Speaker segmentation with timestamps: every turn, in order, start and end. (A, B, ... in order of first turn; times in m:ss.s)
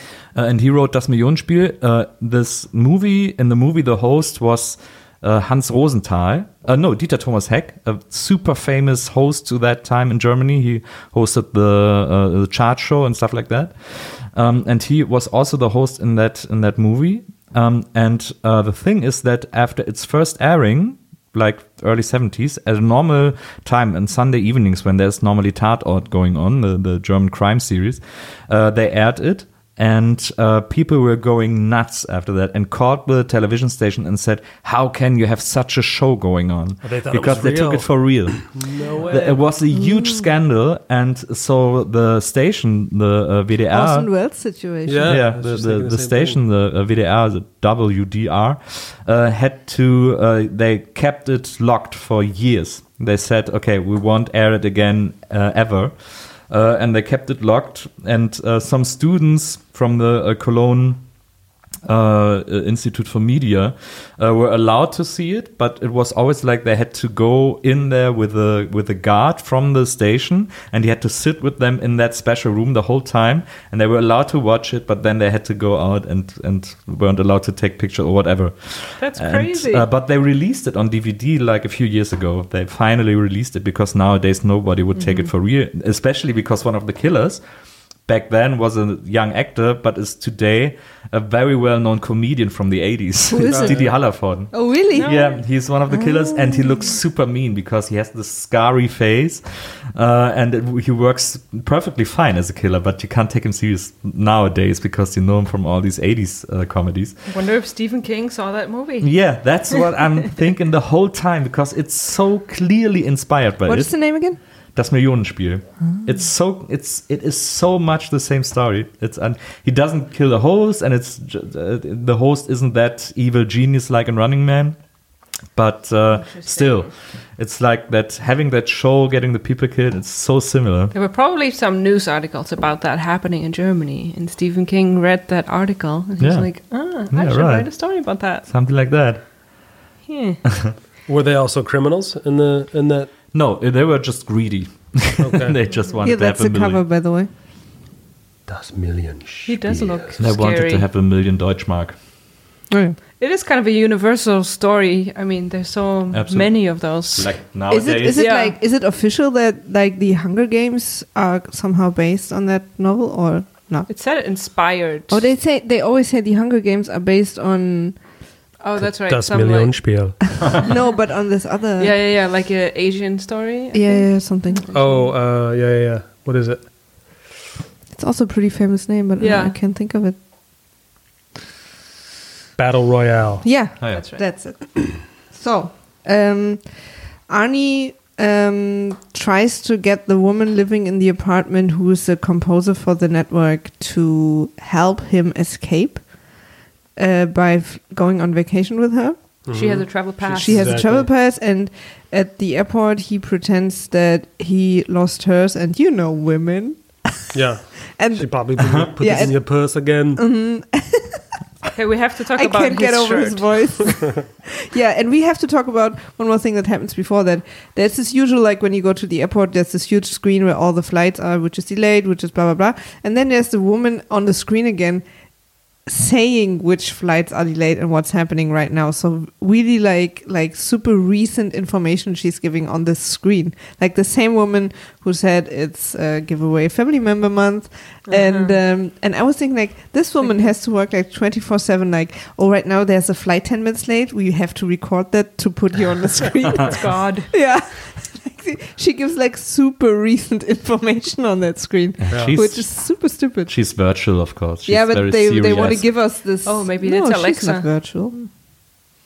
0:00.3-0:44.1 A
0:36.8-0:39.4 B
0:43.7-0:45.2 C
0:44.9-0:46.4 B
0:45.0-1:01.0 A
1:01.8-1:27.4 A
1:19.0-1:19.8 D
1:25.0-1:25.2 D
1:28.0-1:47.2 A
1:33.3-1:33.9 C
1:34.5-1:35.2 C
1:34.9-1:35.4 D
1:36.0-1:36.7 C
1:47.3-1:49.8 D
1:49.0-1:54.0 A
1:53.6-1:54.4 C
1:54.7-2:04.8 A
2:05.5-2:10.9 A
2:06.2-2:06.9 D
2:10.9-2:18.4 D
2:16.2-2:16.5 A
2:17.1-2:17.7 A
2:18.4-2:19.2 A
2:20.0-2:20.4 D
2:21.1-2:23.1 B
2:23.3-2:26.8 A
2:25.2-2:25.6 B
2:26.0-2:27.3 C
2:28.5-2:30.1 B
2:29.4-2:30.8 D
2:30.2-2:32.0 A
2:32.7-2:33.0 C
2:33.2-2:37.4 D
2:36.1-2:38.2 A
2:37.7-2:43.9 C
2:38.1-2:38.5 D
2:43.9-2:45.2 D
2:45.1-2:48.0 C
2:48.6-2:50.7 D
2:48.8-2:50.2 B
2:50.6-2:51.9 C
2:51.8-2:55.1 D
2:53.7-2:54.6 C
2:54.7-2:56.7 B
2:57.9-3:00.2 C
2:59.2-2:59.6 D
3:02.6-3:03.4 B
3:03.4-3:16.2 C
3:03.9-3:04.2 D
3:17.0-3:19.4 C
3:19.4-3:21.1 B
3:19.5-3:20.8 D
3:20.2-3:27.3 C
3:27.3-3:30.2 B
3:27.9-3:31.2 C
3:31.7-3:33.9 D
3:32.3-3:45.0 C
3:45.8-4:13.5 C
3:58.1-3:58.5 D
4:00.2-4:00.5 D
4:06.6-4:07.3 D
4:12.0-4:15.9 A
4:12.1-4:12.4 B
4:14.6-4:18.2 C
4:16.4-4:17.7 D